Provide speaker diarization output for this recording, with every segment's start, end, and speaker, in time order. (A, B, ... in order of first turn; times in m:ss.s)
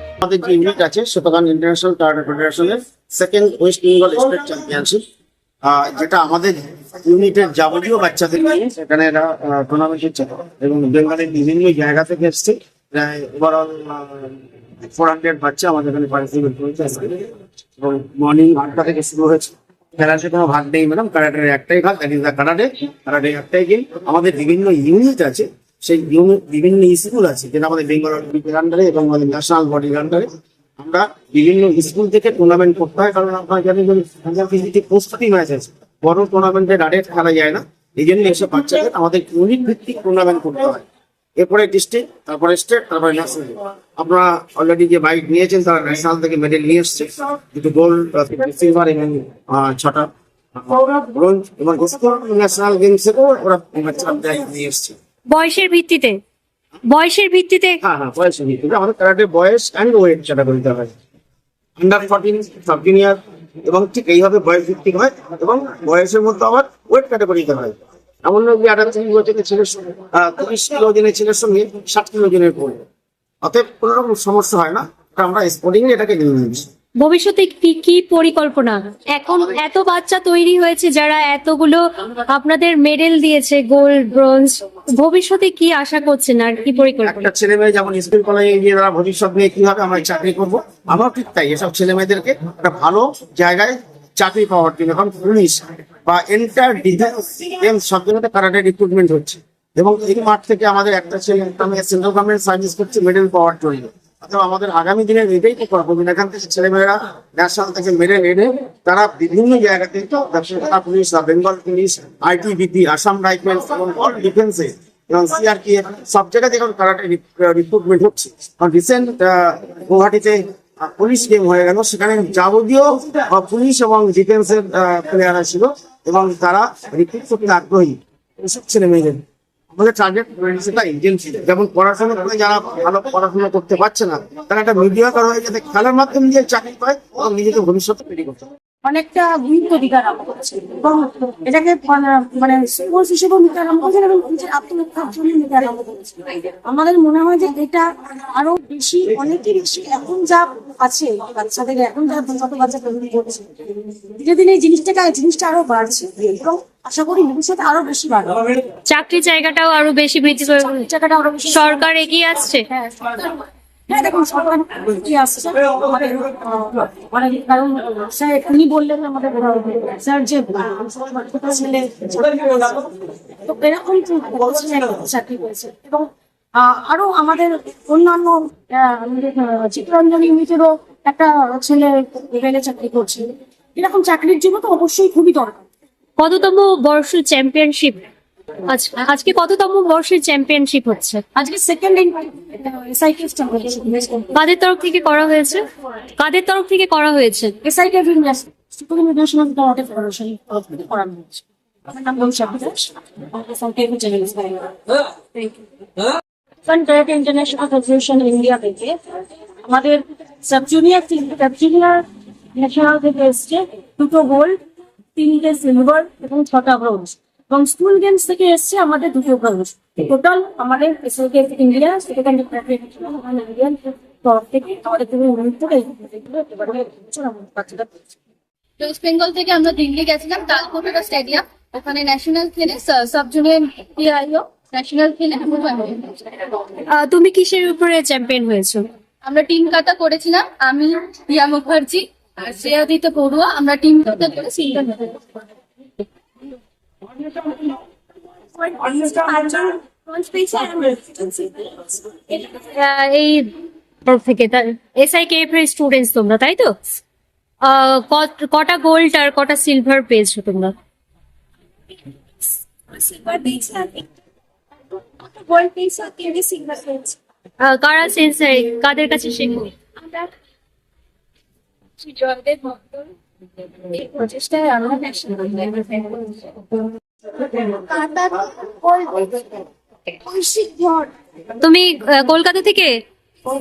0:00.2-0:05.0 A
0:05.6-0:17.2 A
0:17.8-0:40.8 A
0:41.4-0:55.0 A
0:55.3-0:56.2 B
0:56.8-0:57.8 B
0:57.8-1:00.9 A
1:01.8-1:12.8 A
1:13.4-1:16.7 A
1:17.0-1:27.3 B
1:27.0-2:18.4 A
2:18.8-2:33.6 C
2:34.1-2:38.6 C
2:38.9-2:40.9 B
2:40.6-2:42.1 C
2:41.5-2:42.6 B
2:42.7-3:05.6 C
3:06.2-3:08.0 B
3:08.7-3:11.2 B
3:11.3-3:14.3 C
3:14.3-3:15.6 B
3:16.2-3:17.5 B
3:17.6-3:25.6 C
3:26.6-3:29.0 C
3:29.6-3:34.6 C
3:35.2-3:48.1 C
3:48.8-3:56.5 D
3:56.9-3:58.9 B
3:59.2-4:05.2 D
4:07.2-4:07.8 C
4:08.5-4:12.2 C
4:12.3-4:13.5 B
4:14.0-4:17.0 B
4:17.6-4:20.7 B
4:22.9-4:24.0 C
4:25.0-4:27.2 C
4:27.6-4:29.7 B
4:30.0-4:30.3 C
4:32.0-4:33.1 C
4:33.8-4:36.6 C
4:37.3-4:41.1 C
4:41.6-4:43.0 B